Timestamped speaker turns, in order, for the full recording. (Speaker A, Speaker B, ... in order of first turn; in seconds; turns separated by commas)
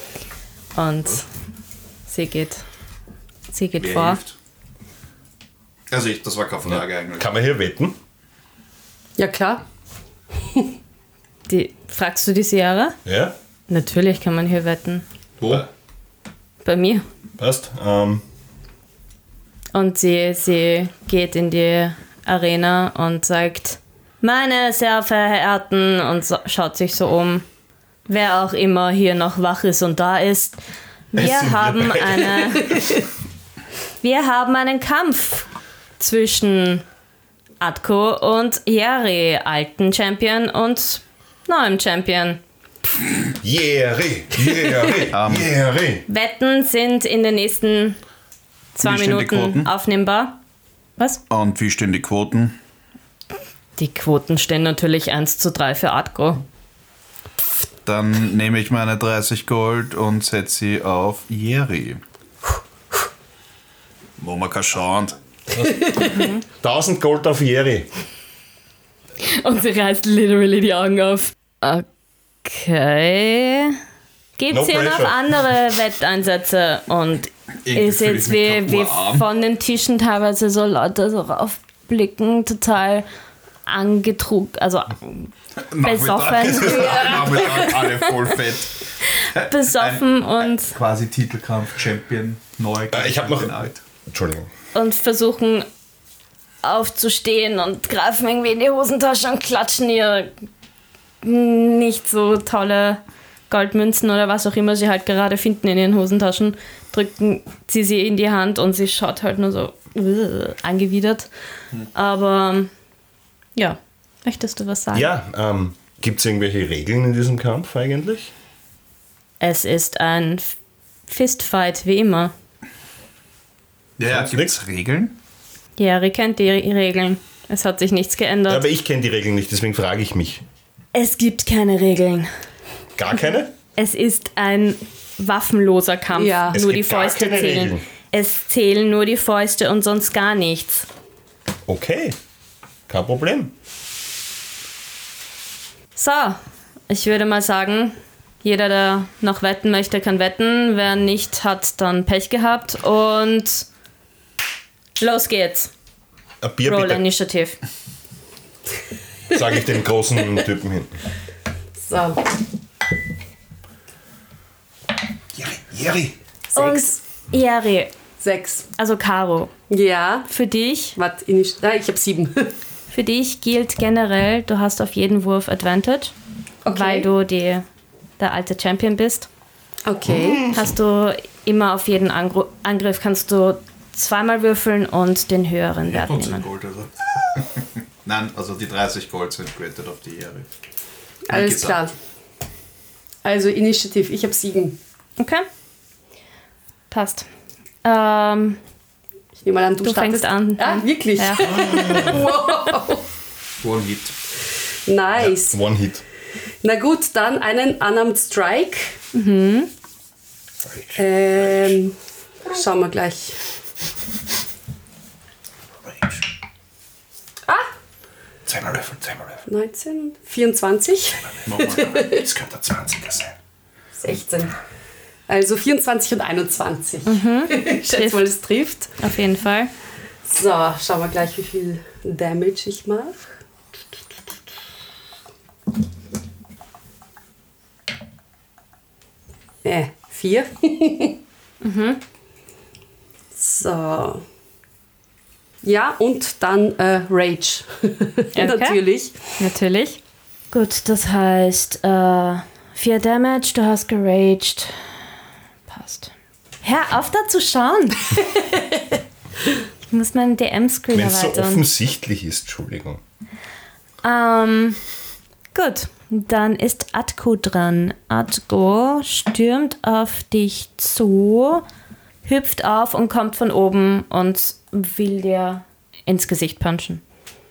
Speaker A: 0.7-1.2, Speaker A: 2.1-2.6, Speaker A: 3.5-4.2, Speaker B: 3.8-4.3, Speaker B: 5.9-7.3, Speaker C: 6.7-8.0, Speaker D: 9.2-9.6, Speaker A: 11.5-13.0, Speaker C: 13.0-13.3, Speaker A: 13.7-15.0, Speaker B: 15.4-15.7, Speaker A: 16.6-17.0, Speaker C: 17.4-18.2, Speaker A: 19.7-27.4, Speaker A: 28.1-30.6, Speaker A: 31.1-32.8, Speaker C: 31.1-32.8, Speaker A: 34.0-35.5, Speaker A: 36.0-36.8, Speaker A: 37.6-42.4, Speaker C: 43.4-46.0, Speaker B: 45.1-45.5, Speaker A: 46.1-48.0, Speaker A: 48.8-50.4, Speaker B: 48.8-49.7, Speaker B: 51.3-52.5, Speaker A: 53.8-56.4, Speaker B: 57.9-62.0, Speaker B: 64.2-65.2, Speaker C: 65.5-67.9, Speaker A: 66.1-66.4, Speaker A: 69.2-71.8, Speaker A: 72.4-73.8, Speaker A: 74.4-83.1, Speaker C: 74.5-75.2, Speaker B: 77.6-79.2, Speaker A: 83.7-88.0, Speaker B: 85.7-93.8, Speaker D: 86.6-87.6, Speaker A: 89.2-90.7, Speaker C: 92.9-93.5, Speaker C: 94.1-94.5, Speaker A: 94.7-95.7, Speaker A: 96.6-100.3, Speaker A: 101.2-111.3, Speaker A: 111.9-112.7, Speaker A: 113.5-115.1, Speaker C: 114.9-118.3, Speaker A: 119.4-120.5, Speaker A: 121.1-122.3, Speaker B: 124.0-125.1, Speaker C: 124.0-124.6, Speaker A: 125.8-128.6, Speaker C: 128.5-130.4, Speaker A: 130.9-132.3, Speaker C: 132.9-133.5, Speaker A: 133.8-140.9, Speaker D: 136.1-136.6, Speaker C: 136.5-137.8, Speaker C: 141.7-142.2, Speaker C: 142.9-143.5, Speaker A: 145.9-153.7, Speaker A: 155.0-155.7, Speaker C: 156.4-157.0, Speaker A: 156.6-157.6, Speaker C: 159.3-160.9, Speaker D: 161.8-162.2, Speaker C: 165.3-166.2, Speaker D: 166.5-167.0, Speaker A: 166.5-167.9, Speaker D: 168.2-168.7, Speaker A: 168.8-169.5, Speaker D: 169.7-170.3, Speaker A: 170.3-170.9, Speaker D: 170.9-172.5, Speaker A: 172.9-176.1, Speaker D: 176.6-177.1, Speaker A: 176.7-177.7, Speaker A: 178.2-179.3, Speaker D: 179.8-180.5, Speaker A: 180.5-186.5, Speaker B: 185.9-190.5, Speaker B: 191.3-191.9, Speaker D: 191.3-191.9, Speaker D: 193.2-194.8, Speaker A: 195.2-195.4, Speaker A: 196.9-197.3, Speaker A: 197.8-198.6, Speaker D: 199.4-203.1, Speaker A: 199.8-202.0, Speaker B: 203.6-204.2, Speaker D: 204.8-205.6, Speaker C: 205.2-206.0, Speaker D: 206.6-209.0, Speaker A: 209.1-209.7, Speaker C: 210.7-211.0, Speaker D: 210.9-213.4, Speaker C: 218.4-219.4, Speaker D: 219.5-222.2, Speaker B: 221.4-222.2, Speaker C: 222.0-223.3, Speaker D: 224.0-224.6, Speaker D: 225.3-228.9, Speaker A: 227.1-228.3, Speaker A: 229.0-229.7, Speaker D: 230.2-233.3, Speaker D: 239.6-241.2, Speaker A: 241.6-242.0, Speaker D: 243.3-244.2, Speaker D: 245.6-249.3, Speaker A: 248.3-248.8, Speaker A: 249.4-250.0, Speaker A: 250.5-254.9, Speaker A: 255.7-256.1, Speaker A: 256.6-258.1, Speaker A: 259.9-261.6, Speaker C: 260.9-263.0, Speaker A: 264.0-264.8, Speaker A: 265.5-271.6, Speaker A: 272.2-277.0